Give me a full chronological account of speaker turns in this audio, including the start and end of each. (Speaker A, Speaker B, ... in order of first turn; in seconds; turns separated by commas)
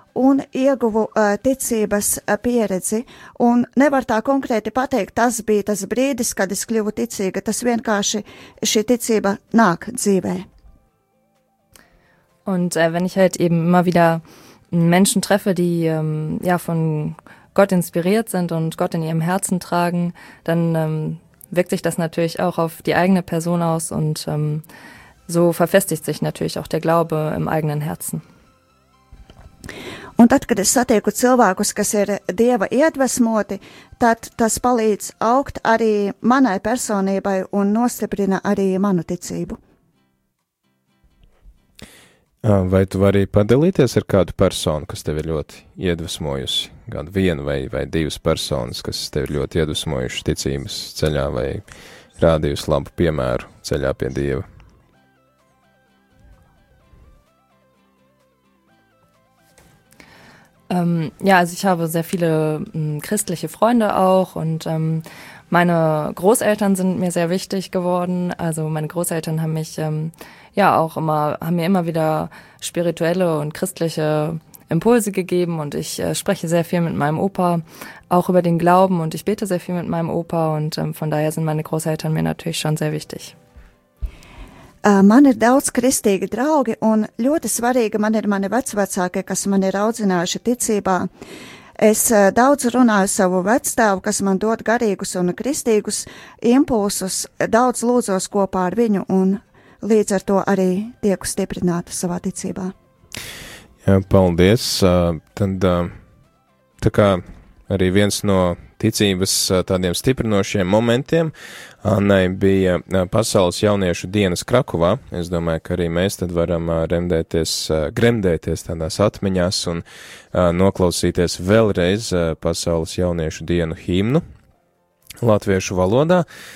Speaker A: 0.1-10.5, Speaker B: 12.5-24.6, Speaker B: 25.3-28.2, Speaker A: 30.2-39.6, Speaker C: 42.4-51.6, Speaker C: 52.2-54.5, Speaker B: 60.7-83.3, Speaker A: 84.8-91.1, Speaker A: 91.8-102.7, Speaker C: 103.8-106.0, Speaker C: 106.8-124.2, Speaker C: 125.2-126.3